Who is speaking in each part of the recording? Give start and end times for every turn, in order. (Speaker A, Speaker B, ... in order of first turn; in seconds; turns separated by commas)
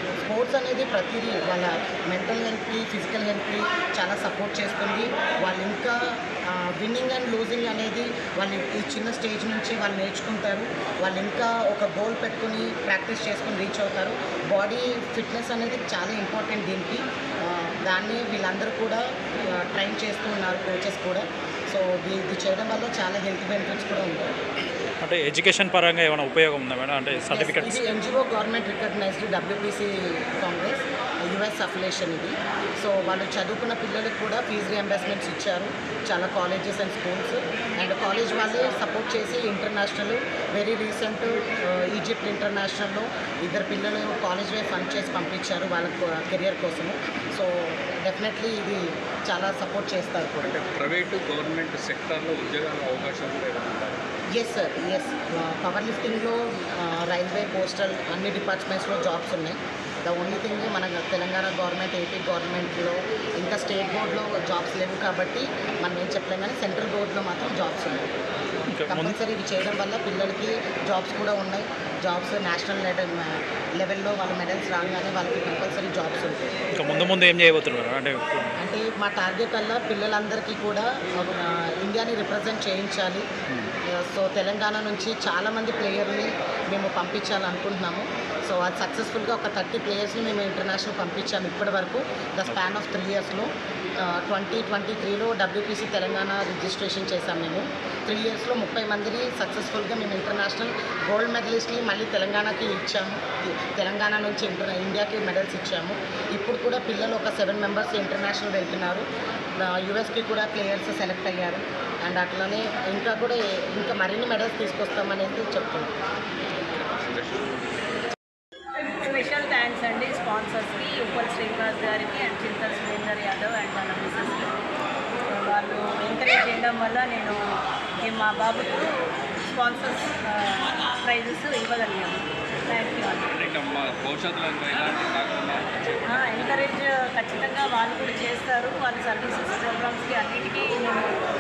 Speaker A: 0.2-24.3, Speaker B: 25.0-27.8, Speaker A: 27.3-50.6, Speaker C: 50.6-54.0, Speaker A: 54.4-68.1, Speaker B: 68.7-69.2, Speaker A: 68.9-76.5, Speaker B: 76.8-78.5, Speaker A: 78.6-83.3, Speaker A: 83.9-93.5, Speaker A: 94.0-109.1, Speaker A: 109.6-115.9, Speaker C: 116.7-117.8, Speaker D: 119.0-124.6, Speaker D: 125.3-127.4, Speaker D: 128.0-128.9, Speaker D: 129.5-133.3, Speaker C: 133.3-136.7, Speaker D: 136.1-141.2